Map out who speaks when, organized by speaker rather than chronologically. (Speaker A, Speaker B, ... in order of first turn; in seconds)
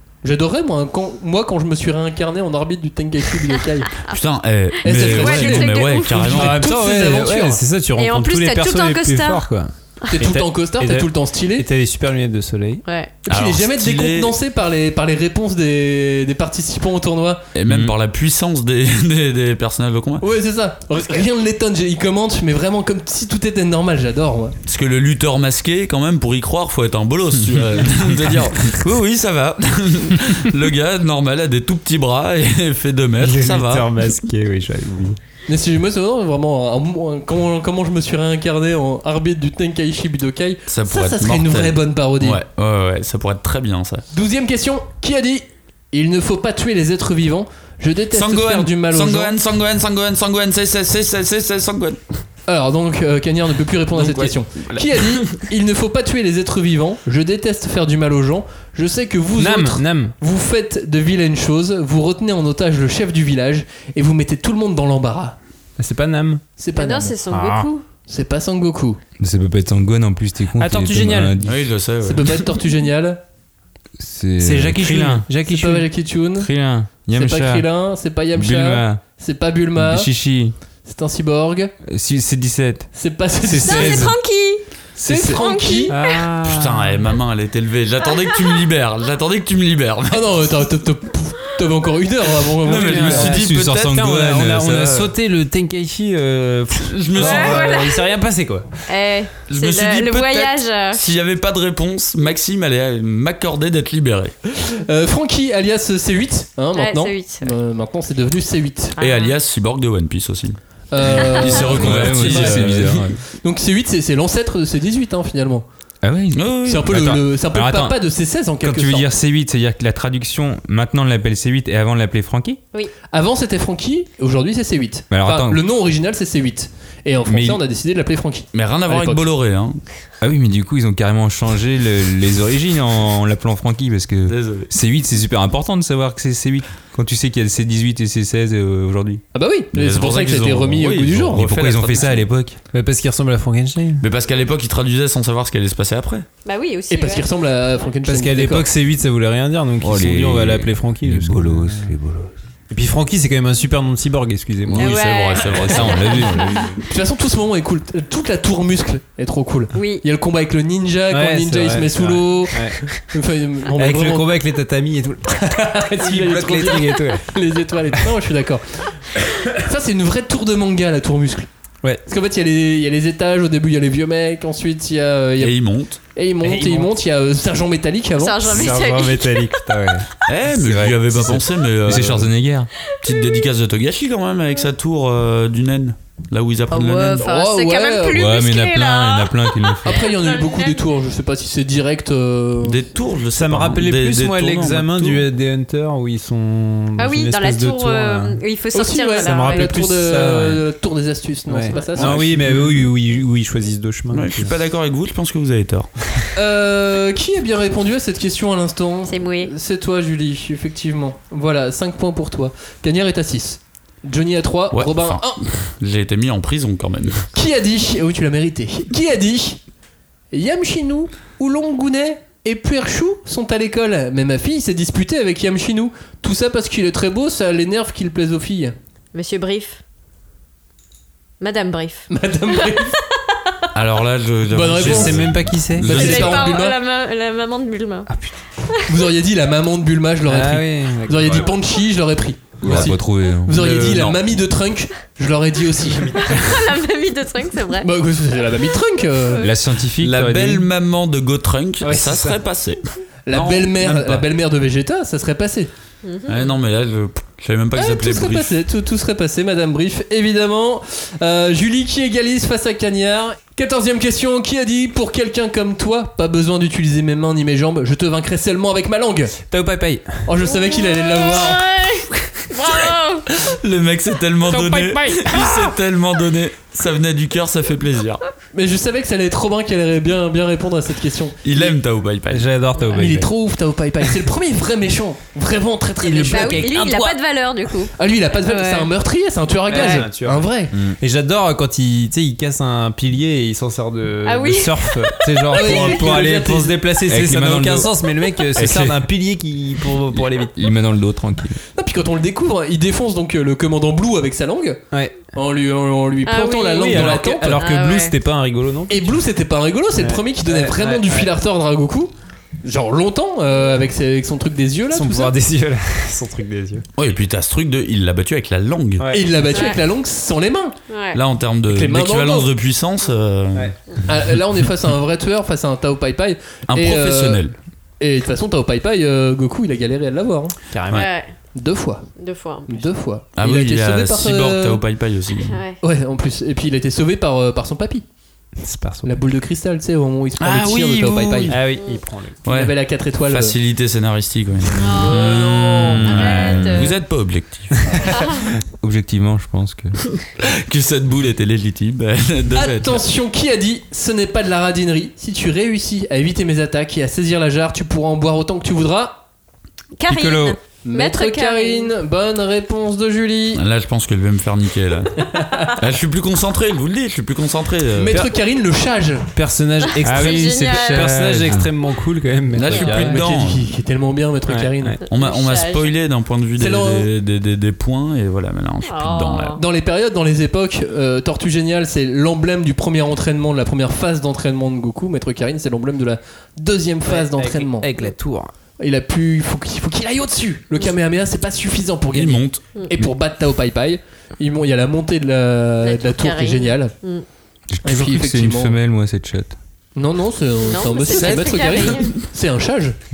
Speaker A: 0.2-3.9, 4.8-7.6, 10.1-11.7, 13.2-17.4, 20.2-24.5, 35.5-42.4, 44.1-49.3, 52.5-65.3, 66.6-67.2, 68.1-69.0, 72.0-73.2, 75.5-76.5, 77.1-80.1, 80.8-81.7, 82.9-84.0, 85.0-85.9, 90.1-93.3, 104.5-109.0, 110.9-115.6, 116.7-119.1, 123.1-129.2, 139.3-141.4, 146.9-148.7, 156.8-164.3, 165.5-171.5, 172.1-175.5, 176.1-178.5, 187.2-188.2, 189.8-192.8, 198.7-202.6, 206.3-215.4, 217.3-219.6, 220.3-228.7, 232.1-233.0, 234.5-235.3, 235.8-236.8, 238.9-246.3, 247.8-249.4, 253.2-255.7, 257.7-269.4, 270.3-271.6, 278.5-281.7, 282.9-286.6, 287.9-290.7, 295.5-296.8, 301.8-304.8, 305.3-307.6, 308.9-312.1, 312.6-315.3, 319.1-320.8, 321.7-322.5, 324.1-327.4, 328.0-330.6, 331.5-332.1, 332.6-334.8, 335.8-338.0, 339.0-341.6, 342.4-343.6, 345.0-346.0, 352.5-359.2, 360.8-363.6, 365.2-365.7, 367.9-369.3, 372.9-375.0, 376.6-377.1, 379.6-387.9, 388.8-396.9, 397.8-398.8, 399.9-403.0
Speaker B: 4.1-6.6, 13.3-14.3, 17.5-20.2, 24.6-33.9, 40.7-44.0, 48.1-52.0, 54.0-55.3, 71.4-72.5, 86.4-90.4, 92.6-94.1, 96.8-97.8, 99.5-104.3, 109.0-113.0, 116.3-116.9, 128.5-129.8, 134.3-134.7, 139.7-142.2, 144.0-146.3, 154.7-156.2, 175.4-176.0, 180.3-182.3, 183.0-187.2, 192.6-195.2, 202.0-202.5, 204.1-205.9, 214.7-217.3, 233.7-236.5, 242.6-242.9, 243.8-244.1, 250.0-254.2, 256.3-258.5, 273.3-278.2, 281.4-282.5, 317.0-319.1, 321.1-323.7, 326.7-327.5, 333.4-335.6, 340.4-341.7, 342.4-344.8, 346.1-348.0, 350.4-353.0, 363.5-365.2, 365.8-368.3, 372.5-373.6, 375.1-379.6, 392.1-392.6, 401.1-402.2
Speaker C: 4.8-6.3, 8.0-9.5, 12.8-13.2, 66.7-67.8, 83.6-84.7, 85.3-86.2, 97.2-98.1, 98.9-101.0, 106.7-107.5, 109.0-109.3, 111.1-112.0, 146.4-147.3, 154.8-156.8, 159.7-160.0, 178.2-179.8, 182.8-183.5, 186.7-190.9, 197.0-199.9, 201.7-202.2, 209.1-209.5, 229.1-229.8, 231.4-232.9, 235.9-238.1, 238.7-239.0, 246.2-247.9, 249.2-249.5, 256.0-256.5, 270.4-273.3, 286.2-288.9, 289.7-290.0, 294.2-296.0, 306.2-308.1, 319.5-319.8, 320.9-321.2, 330.9-331.3, 332.2-332.9, 335.4-335.8, 341.7-342.0, 344.8-347.0, 348.1-348.4, 360.0-361.9, 369.9-371.2, 372.6-373.1, 375.0-375.9, 378.8-379.6, 395.8-397.2, 400.6-402.2
Speaker D: 6.3-12.8, 33.2-35.2, 59.4-60.1, 65.8-66.4, 70.5-71.4, 74.4-75.8, 83.5-84.2, 85.9-87.0, 92.7-98.7, 142.7-144.0, 148.0-151.9, 152.7-154.9, 161.1-162.8, 163.7-167.2, 176.4-176.9, 178.4-180.1, 193.3-198.4, 199.2-200.6, 201.5-204.5, 234.8-235.9, 240.2-241.5, 251.8-252.4, 269.5-270.2, 274.5-275.5, 282.3-283.3, 286.0-287.2, 289.7-290.4, 291.0-300.6, 304.9-305.2, 306.8-309.2, 310.0-311.3, 314.9-316.9, 319.0-319.5, 330.7-331.1, 338.6-339.1, 341.5-342.4, 369.4-373.2, 374.5-375.0, 387.1-388.5
Speaker E: 67.3-67.7, 69.2-71.5, 74.0-75.2, 76.3-77.7, 78.3-79.0, 79.8-80.5, 81.9-82.9, 85.0-85.4, 93.2-95.0, 111.7-113.2, 116.0-122.6, 125.1-125.6, 127.2-127.6, 130.2-139.2, 141.3-142.6, 149.8-152.3, 155.5-156.8, 180.5-182.7, 188.1-190.1, 242.6-244.2, 249.4-250.6, 297.1-297.9, 298.6-299.0, 300.5-301.6, 345.9-346.8, 348.8-350.0, 360.1-360.6, 370.0-371.7, 397.7-399.6